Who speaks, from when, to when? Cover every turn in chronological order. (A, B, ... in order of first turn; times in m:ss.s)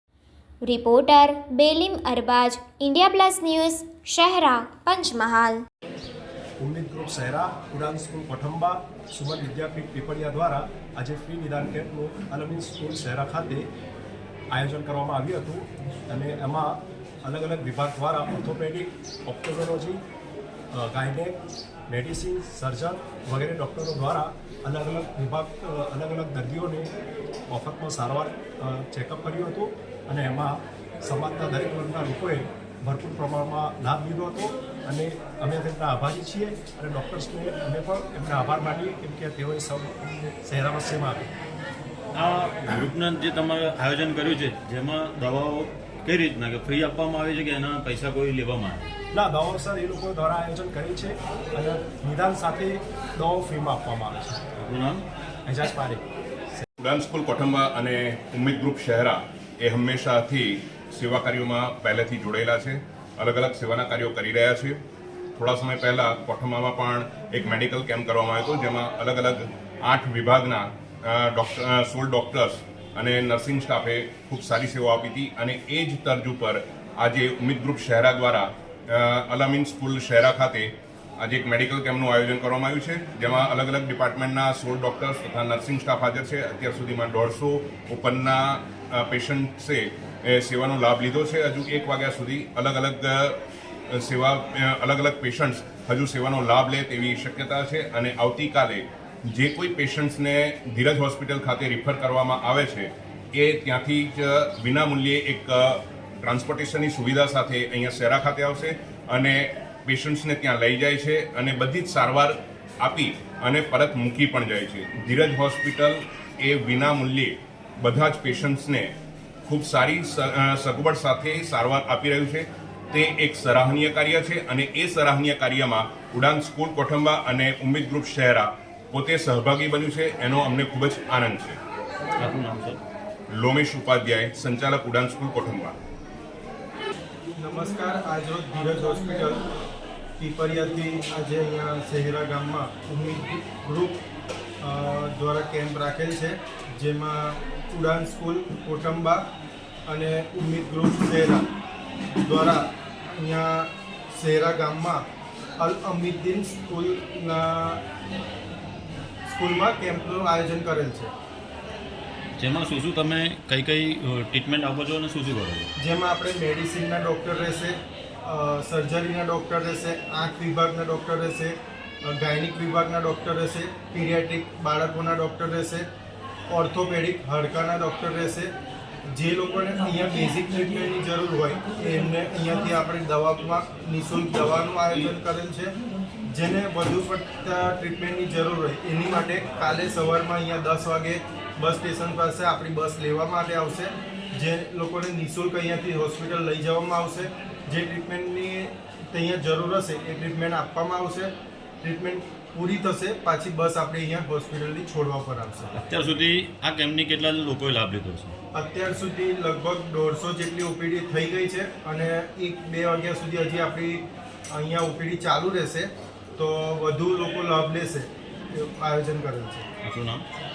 0:00.7-0:05.6 A
0:06.6-0:13.7 B
0:14.5-0:20.0 B
0:20.7-0:26.9 B
0:27.5-0:41.3 B
0:42.2-0:48.9 C
0:49.1-0:54.4 B
0:54.6-0:55.0 C
0:55.5-0:56.0 B
0:56.8-1:04.8 D
1:05.4-1:33.4 D
1:33.9-1:58.9 D
1:59.5-2:11.6 D
2:12.2-2:12.8 C
2:13.3-2:15.8 D
2:17.3-2:19.4 E
2:20.2-2:24.0 E
2:24.6-2:29.2 E
2:29.9-2:31.4 E
2:32.2-2:35.0 E
2:35.6-2:37.8 E
2:39.3-2:41.1 E
2:42.4-2:45.7 C
2:45.8-2:55.9 E
2:56.5-2:58.5 E
2:59.1-3:05.8 E
3:06.3-3:21.3 E
3:21.8-3:25.7 E
3:25.7-3:28.4 C
3:28.5-3:39.7 E
3:39.8-3:40.2 C